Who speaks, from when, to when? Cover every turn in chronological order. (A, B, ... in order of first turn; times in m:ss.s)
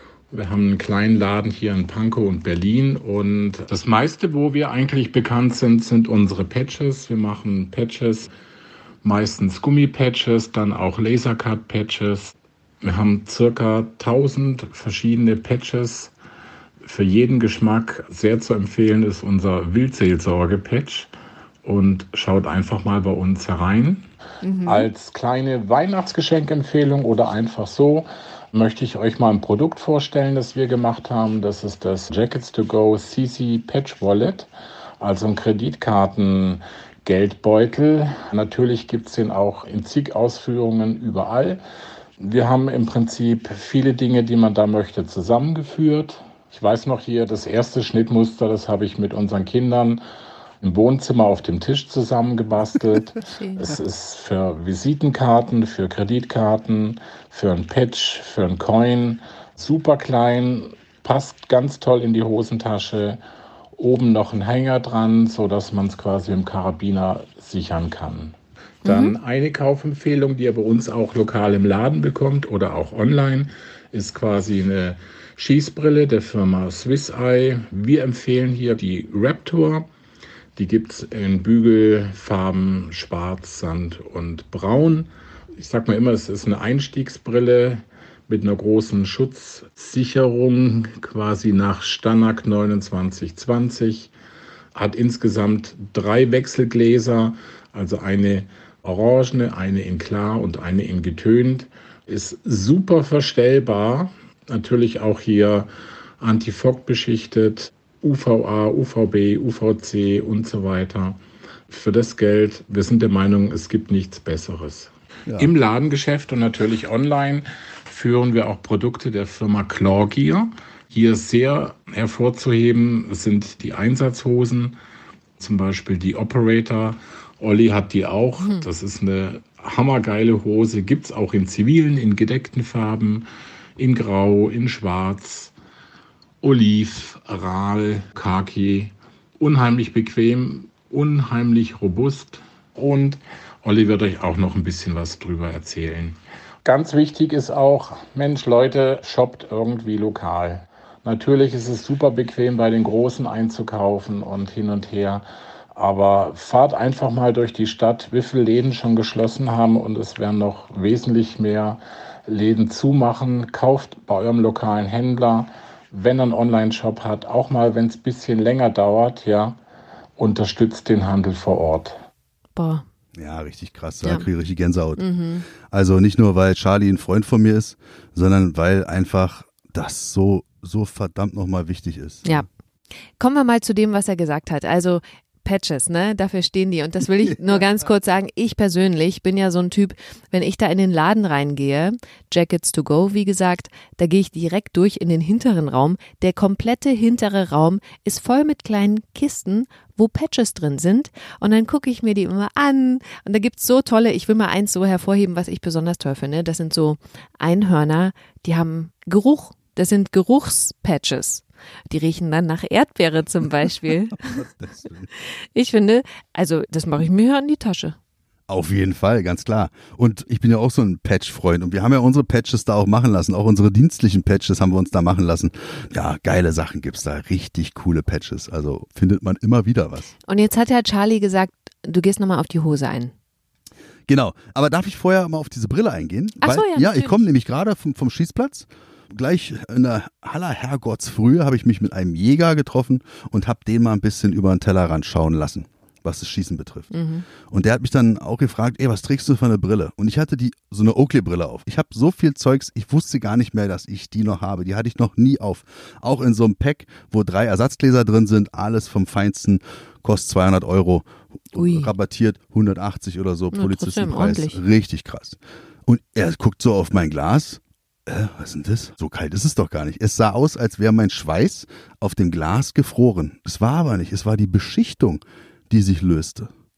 0:00.3-0:08.3 A
0:09.0-0:16.1 A
0:16.8-0:21.1 A
0:21.6-0:24.1 A
0:24.4-0:24.9 B
0:24.6-0:34.5 A
0:35.0-0:41.6 A
0:42.2-0:50.0 A
0:50.6-1:03.2 A
0:53.3-0:53.6 B
1:03.8-1:19.9 A
1:08.8-1:09.1 B
1:20.6-1:34.1 A
1:34.7-1:45.7 A
1:46.2-2:04.7 A
2:05.4-2:13.2 A
2:13.8-2:15.5 A
2:16.4-2:49.6 A
2:50.2-2:52.0 A
2:52.6-2:52.8 B
2:53.1-2:55.1 C
2:55.0-2:55.5 B
2:55.6-3:02.4 C
3:03.2-3:34.4 B
3:34.1-3:35.1 C
3:35.2-3:38.0 B
3:38.5-3:50.1 C
3:50.2-3:53.1 B
3:54.1-4:36.5 C
3:56.4-3:57.2 B
4:06.9-4:07.2 B
4:21.5-4:21.9 B
4:23.5-4:24.6 B